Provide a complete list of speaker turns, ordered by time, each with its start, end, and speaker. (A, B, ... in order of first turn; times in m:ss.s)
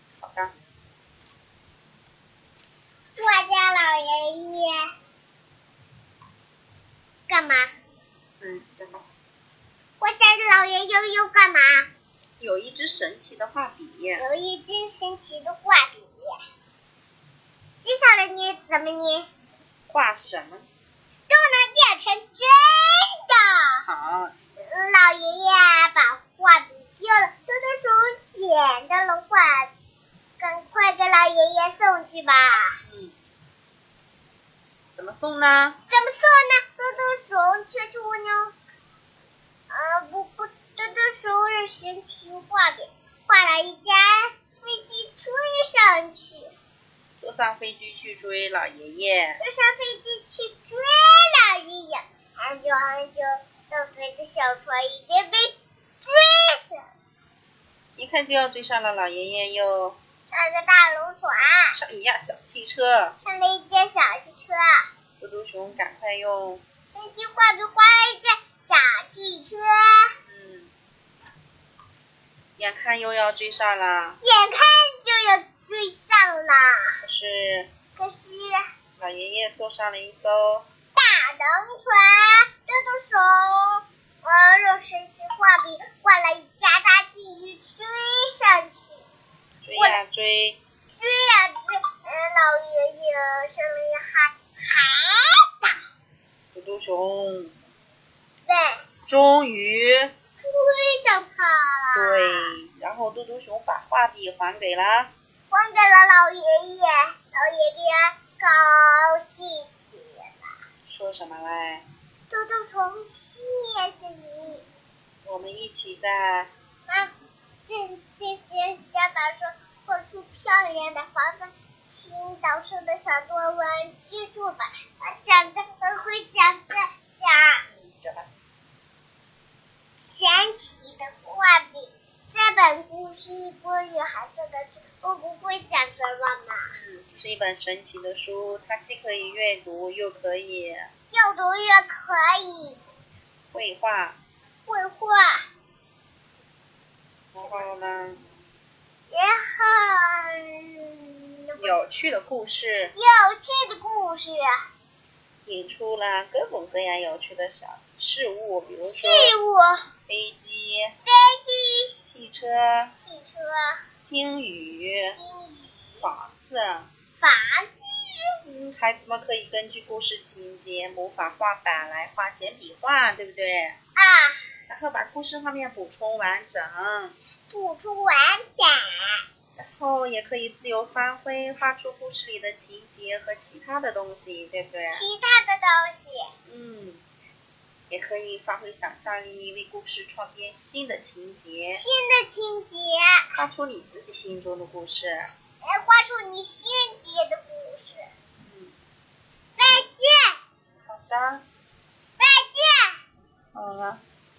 0:00.2-0:00.5 A
0:03.2-0:04.8 B
0:07.3-0:07.6 B
0:08.4-0:09.1 A
0:10.0-0:11.9 B
0:12.4-0:14.2 A
0:14.2-0:16.4 B
0:17.8-0:19.3 B
0:19.9-0:20.7 A
0:21.3-0:23.8 B
0:23.8-0:24.3 A
0:24.6-0:29.7 B
0:30.4-0:32.8 B
0:32.8-0:33.2 A
0:35.0-0:35.8 A
0:35.9-0:38.5 B
0:39.7-0:46.5 B
0:47.2-0:49.4 A
0:49.4-0:56.8 B
0:58.0-1:00.0 A
1:00.3-1:01.8 B
1:01.7-1:03.2 A
1:03.2-1:04.7 B
1:05.2-1:06.6 A
1:06.9-1:10.1 B
1:10.2-1:10.7 A
1:12.6-1:14.2 A
1:14.2-1:17.0 B
1:17.0-1:17.7 A
1:18.0-1:18.6 B
1:19.0-1:20.6 A
1:20.9-1:29.0 B
1:29.6-1:30.6 A
1:31.0-1:35.8 B
1:36.5-1:37.5 A
1:38.5-1:38.8 B
1:39.1-1:40.1 A
1:40.4-1:42.6 B
1:41.9-1:45.1 A
1:45.5-1:50.5 B
1:50.8-1:51.8 A
1:52.3-1:54.6 B
1:55.2-1:56.5 A
1:57.7-2:07.6 B
2:07.6-2:08.3 A
2:10.0-2:16.7 B
2:16.7-2:20.9 A
2:21.1-2:22.8 B
2:23.5-2:24.2 A
2:24.6-2:25.4 B
2:27.3-2:28.2 A
2:29.1-2:31.8 B
2:31.6-2:32.9 A
2:32.9-2:34.6 B
2:35.4-2:39.3 A
2:38.9-2:39.8 B
2:40.1-2:40.9 A
2:41.0-2:41.9 B
2:42.0-2:42.9 A
2:43.0-2:43.8 B
2:44.0-2:45.2 A
2:45.1-2:46.1 B
2:46.0-2:46.9 A
2:47.2-2:48.4 B
2:48.4-2:53.8 A
2:54.0-2:54.5 B
2:54.7-2:57.1 A
2:57.5-2:59.2 B
2:59.6-3:05.0 A
3:04.9-3:06.3 B
3:06.4-3:07.0 A
3:07.9-3:11.8 A
3:11.7-3:13.3 B
3:13.3-3:15.3 A
3:15.6-3:18.0 B
3:18.4-3:18.8 A
3:19.6-3:20.4 B
3:20.9-3:21.4 A
3:22.2-3:22.9 B
3:23.5-3:24.0 A